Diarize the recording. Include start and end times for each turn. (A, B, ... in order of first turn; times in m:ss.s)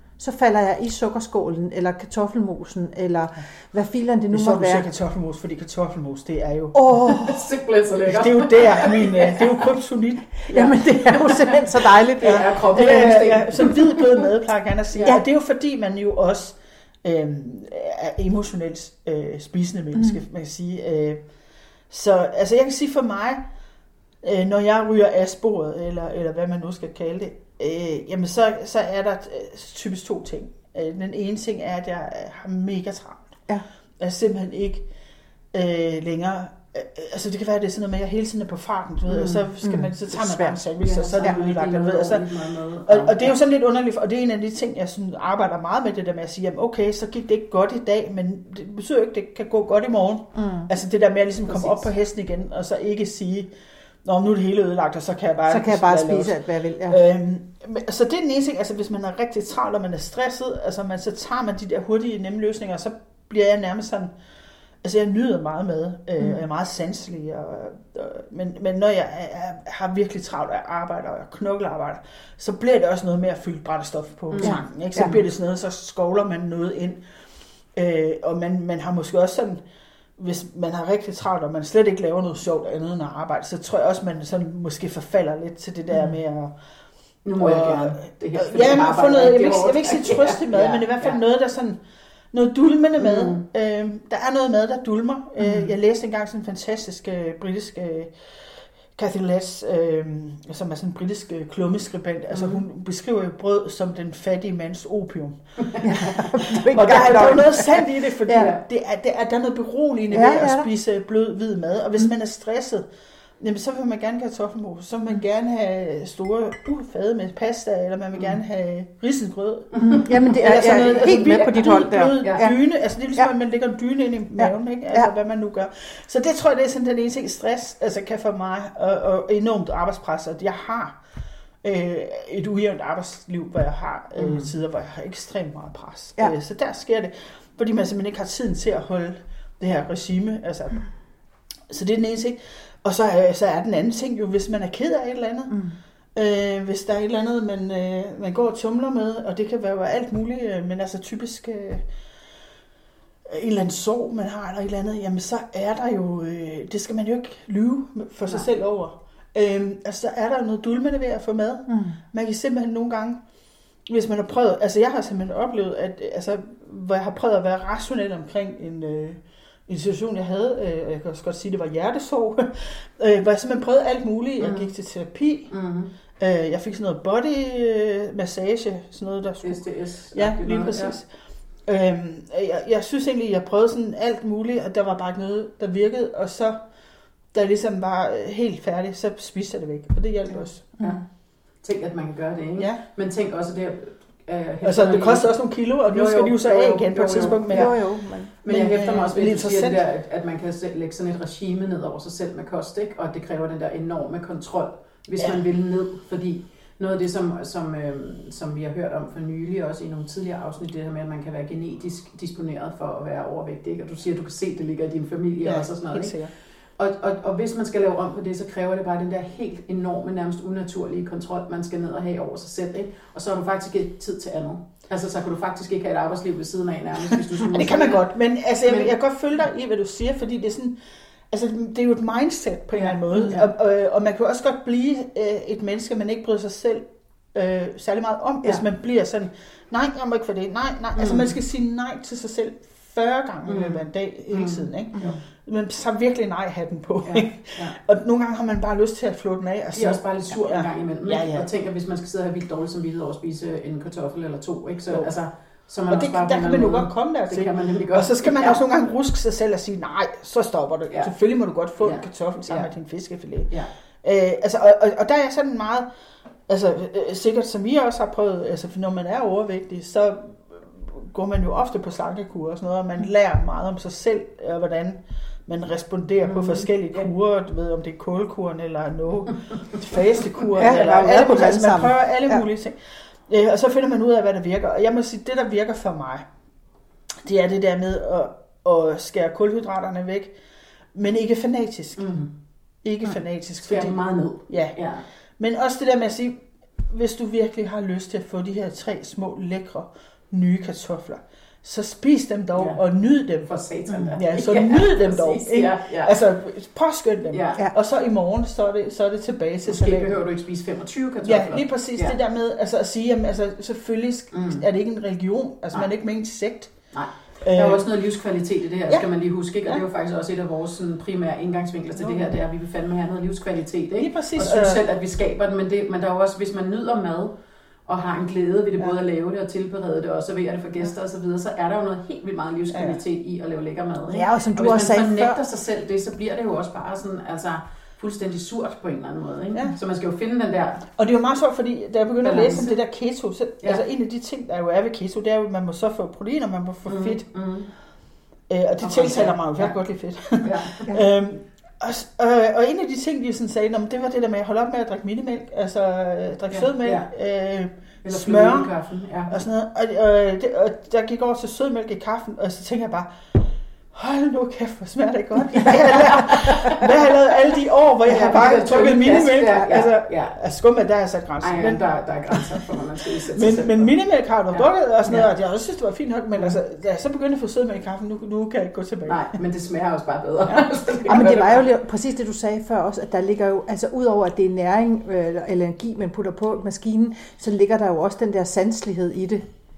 0:00.2-0:04.8 A
0:04.3-0:07.4 B
0:06.7-0:07.4 A
0:07.0-0:09.6 C
0:08.0-0:10.4 B
0:10.5-0:13.1 A
0:10.5-0:14.2 C
0:12.2-0:21.3 B
0:21.9-0:23.4 B
0:24.2-0:33.3 B
0:34.0-0:34.9 B
0:35.5-0:42.3 B
0:39.1-0:39.4 C
0:39.6-0:40.6 A
0:40.8-0:43.4 C
0:42.9-0:53.5 B
0:50.3-0:50.7 A
0:51.5-0:51.8 C
0:54.0-1:04.1 B
0:55.5-0:57.0 A
1:04.8-1:17.0 B
1:14.3-1:15.2 C
1:14.4-1:15.1 A
1:17.7-1:19.6 B
1:20.2-1:26.5 B
1:27.2-1:31.2 C
1:27.4-1:31.8 B
1:32.3-1:52.8 B
1:33.0-1:33.4 C
1:42.3-1:42.6 C
1:45.6-1:46.5 C
1:45.8-1:48.5 A
1:48.3-1:48.6 C
1:50.1-1:50.7 A
1:53.4-2:11.0 B
1:59.7-2:02.4 C
1:59.8-2:02.6 A
2:04.4-2:05.1 A
2:11.6-2:20.9 B
2:14.2-2:14.5 C
2:21.7-2:25.6 B
2:25.5-2:25.8 A
2:26.1-2:31.9 B
2:33.2-2:43.2 B
2:41.7-2:42.0 A
2:43.8-2:55.5 B
2:54.4-2:54.7 C
2:55.5-2:55.9 C
2:56.2-3:01.1 B
2:59.4-3:00.9 C
3:01.6-3:06.6 B
3:07.3-3:10.7 B
3:11.6-3:15.3 C
3:12.6-3:12.8 B
3:14.6-3:17.8 B
3:15.9-3:17.8 C
3:17.5-3:18.3 A
3:18.4-3:36.2 C
3:18.4-3:19.8 B
3:35.4-3:36.3 B
3:36.8-3:48.0 C
3:47.4-3:50.8 B
3:48.6-3:48.9 C
3:51.3-4:11.5 B
3:52.7-3:53.5 C
4:01.0-4:01.4 C
4:03.4-4:05.2 C
4:07.0-4:07.8 C
4:09.7-4:18.6 C
4:15.9-4:23.5 B
4:21.8-4:22.7 C
4:24.0-4:25.9 B
4:26.5-4:46.3 B
4:36.2-4:36.7 C
4:40.6-4:42.4 A
4:47.2-4:50.3 B
4:50.9-4:52.0 B
4:52.0-4:52.3 C
4:52.8-4:54.8 B
4:53.6-4:55.0 C
4:55.4-5:03.5 B
5:03.4-5:06.2 C
5:04.1-5:10.2 B
5:07.3-5:07.6 C
5:09.7-5:12.2 C
5:11.2-5:16.8 B
5:14.3-5:14.6 C
5:16.9-5:27.3 C
5:17.4-5:17.9 B
5:22.0-5:22.3 B
5:24.0-5:24.8 B
5:27.9-5:40.8 C
5:32.7-5:33.0 B
5:34.1-5:35.4 A
5:41.0-5:47.2 B
5:42.2-5:42.7 C
5:46.8-5:47.7 C
5:48.5-5:58.7 B
5:48.8-5:49.7 C
5:50.4-5:50.9 C
5:56.5-5:57.1 C
5:58.0-5:59.4 C
5:59.3-6:12.6 B
6:06.0-6:06.8 C
6:08.0-6:10.4 C
6:11.4-6:13.9 C
6:13.3-6:19.4 B
6:14.5-6:15.3 C
6:19.1-6:21.6 C
6:20.5-6:21.4 B
6:21.1-6:29.4 A